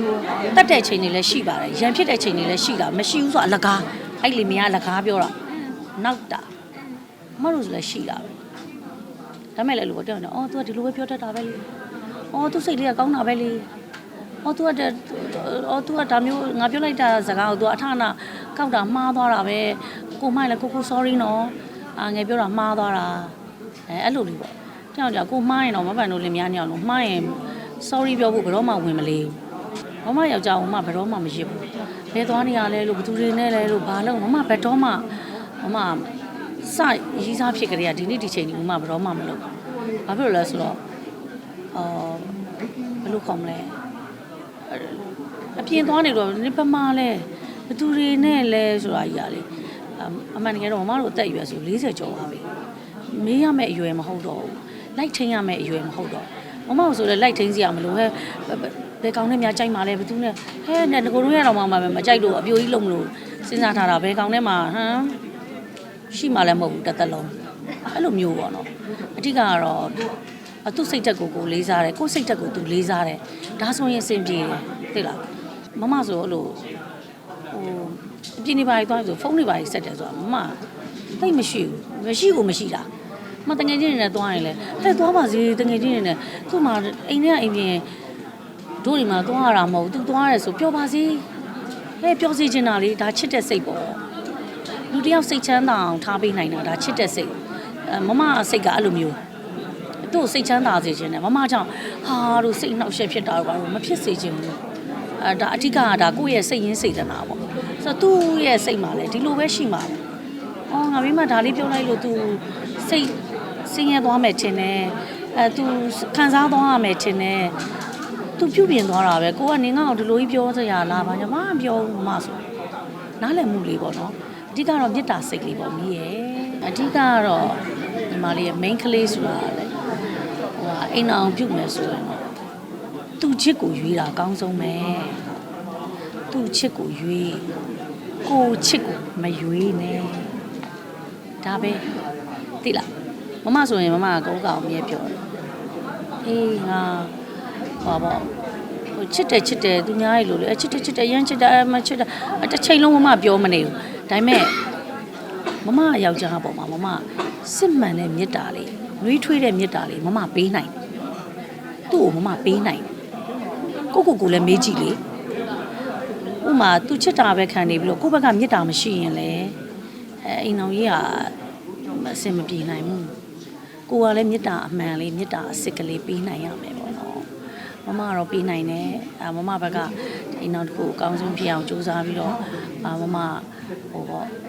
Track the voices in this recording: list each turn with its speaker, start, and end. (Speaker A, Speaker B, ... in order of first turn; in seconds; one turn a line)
Speaker A: 0.5-5.4
Speaker A: 5.9-6.5
Speaker A: 7.4-8.3
Speaker A: 9.6-11.6
Speaker A: 12.3-13.7
Speaker A: 14.4-23.3
Speaker A: 23.9-29.4
Speaker A: 30.0-35.1
Speaker A: 35.6-36.1
Speaker A: 36.6-39.4
Speaker A: 40.1-40.8
Speaker A: 41.7-42.4
Speaker A: 43.0-43.8
Speaker A: 44.7-45.0
Speaker A: 45.6-52.4
Speaker A: 53.1-65.2
Speaker A: 66.1-67.3
Speaker A: 67.9-70.0
Speaker A: 70.6-75.2
Speaker A: 75.7-76.6
Speaker A: 77.5-80.6
Speaker A: 81.2-82.9
Speaker A: 83.5-87.8
Speaker A: 88.8-91.2
Speaker A: 92.0-94.0
Speaker A: 94.9-99.2
Speaker A: 100.0-104.6
Speaker A: 105.2-110.0
Speaker A: 110.7-117.5
Speaker A: 118.4-122.4
Speaker A: 123.2-129.7
Speaker A: 130.6-132.3
Speaker A: 133.2-135.3
Speaker A: 136.3-137.5
Speaker A: 138.2-140.4
Speaker A: 141.4-141.8
Speaker A: 143.4-145.2
Speaker A: 146.2-147.1
Speaker A: 147.8-148.3
Speaker A: 148.9-154.6
Speaker A: 155.6-160.7
Speaker A: 161.9-162.9
Speaker A: 163.9-165.0
Speaker A: 166.4-169.6
Speaker A: 170.2-171.3
Speaker A: 171.8-173.1
Speaker A: 173.9-177.3
Speaker A: 177.8-184.3